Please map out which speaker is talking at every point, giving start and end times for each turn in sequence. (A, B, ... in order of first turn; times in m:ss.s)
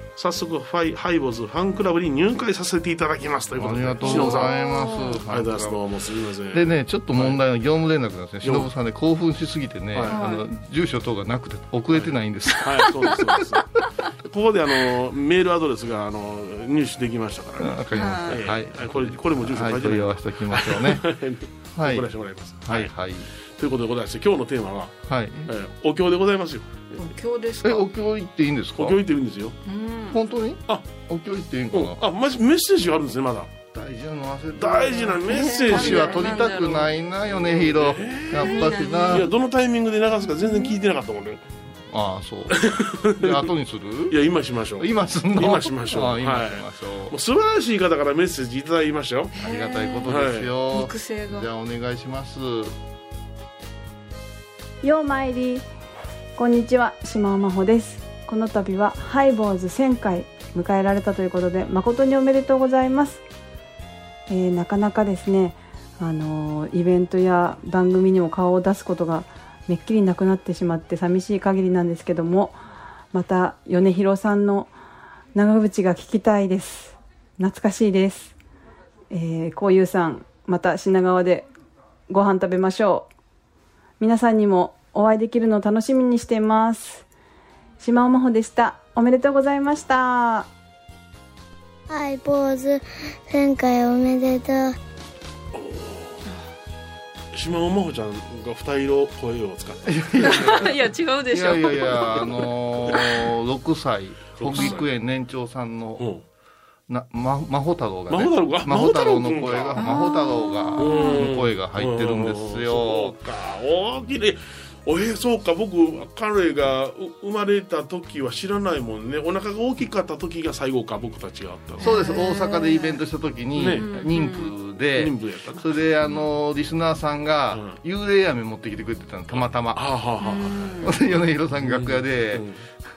0:00.2-0:07.4 A
0:03.6-0:05.8 B
0:04.2-0:04.9 C
0:06.5-0:13.4 B
0:08.4-0:08.7 A
0:09.9-0:10.2 A
0:11.9-0:22.9 A
0:17.6-0:21.1 B
0:21.8-0:22.1 B
0:22.6-0:23.3 B
0:23.6-0:25.0 A
0:25.1-0:25.5 B
0:25.5-0:27.1 A
0:27.2-0:27.8 C
0:27.6-0:29.0 B
0:28.8-0:29.6 A
0:29.7-0:30.0 C
0:30.1-0:32.0 B
0:31.7-0:33.5 A
0:33.7-0:39.3 B
0:34.6-0:36.4 A
0:35.3-0:36.9 C
0:37.4-0:41.4 A
0:38.4-0:39.0 C
0:41.9-0:44.2 B
0:42.5-0:43.5 A
0:44.1-0:49.4 A
0:44.8-0:47.2 B
0:49.4-0:52.8 B
0:49.4-0:50.0 C
0:50.0-0:50.6 A
0:50.7-0:51.4 C
0:54.8-0:55.7 D
0:56.4-1:03.2 D
1:04.3-1:12.6 D
1:13.1-1:14.7 D
1:15.4-1:18.4 D
1:19.1-1:21.5 D
1:22.1-1:23.1 D
1:24.0-1:27.1 D
1:27.8-1:30.5 D
1:31.9-1:34.8 E
1:35.5-1:36.2 A
1:37.3-1:40.8 A
1:39.9-1:46.1 B
1:40.2-1:42.1 C
1:41.6-1:43.1 A
1:44.4-1:44.9 A
1:46.0-1:46.2 A
1:46.9-1:53.2 B
1:48.1-1:50.1 A
1:50.8-2:01.9 A
2:01.8-2:09.9 B
2:01.8-2:02.9 C
2:03.6-2:04.0 A
2:03.8-2:04.4 C
2:04.9-2:06.2 A
2:07.5-2:07.8 A
2:09.7-2:12.6 A
2:10.4-2:10.8 C
2:10.8-2:12.5 B